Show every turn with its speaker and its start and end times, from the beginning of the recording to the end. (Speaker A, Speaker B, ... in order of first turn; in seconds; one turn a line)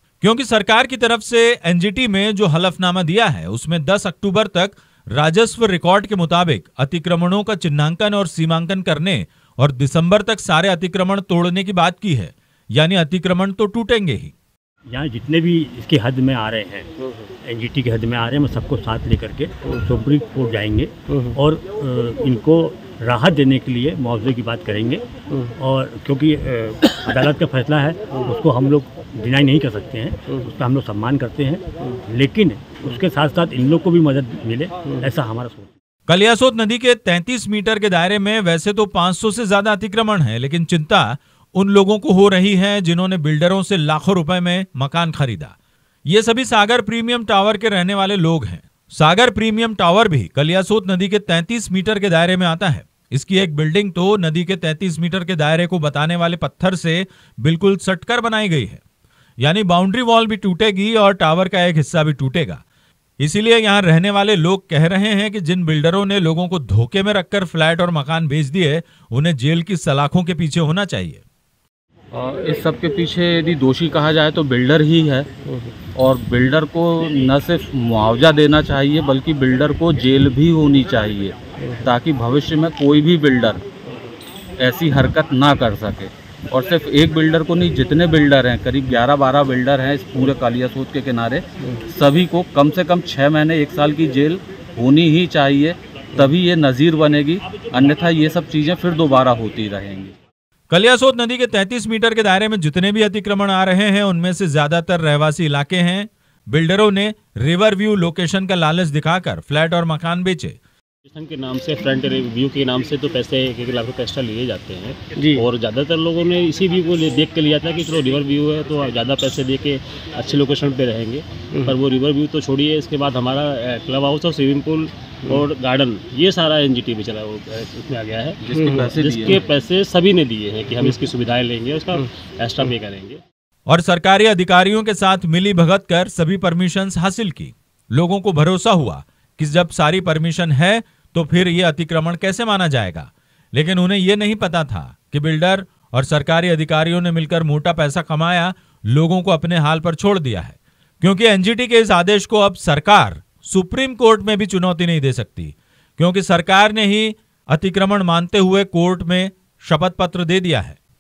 Speaker A: 0.2-14.3
Speaker B: 14.9-16.9
Speaker B: 17.4-35.7
Speaker A: 36.1-58.8
Speaker A: 59.4-62.6
Speaker A: 63.2-71.2
Speaker C: 72.1-75.3
Speaker C: 76.0-83.6
Speaker C: 84.6-100.1
Speaker A: 100.7-110.6
Speaker D: 111.1-133.2
Speaker C: 128.4-129.5
Speaker A: 133.7-160.8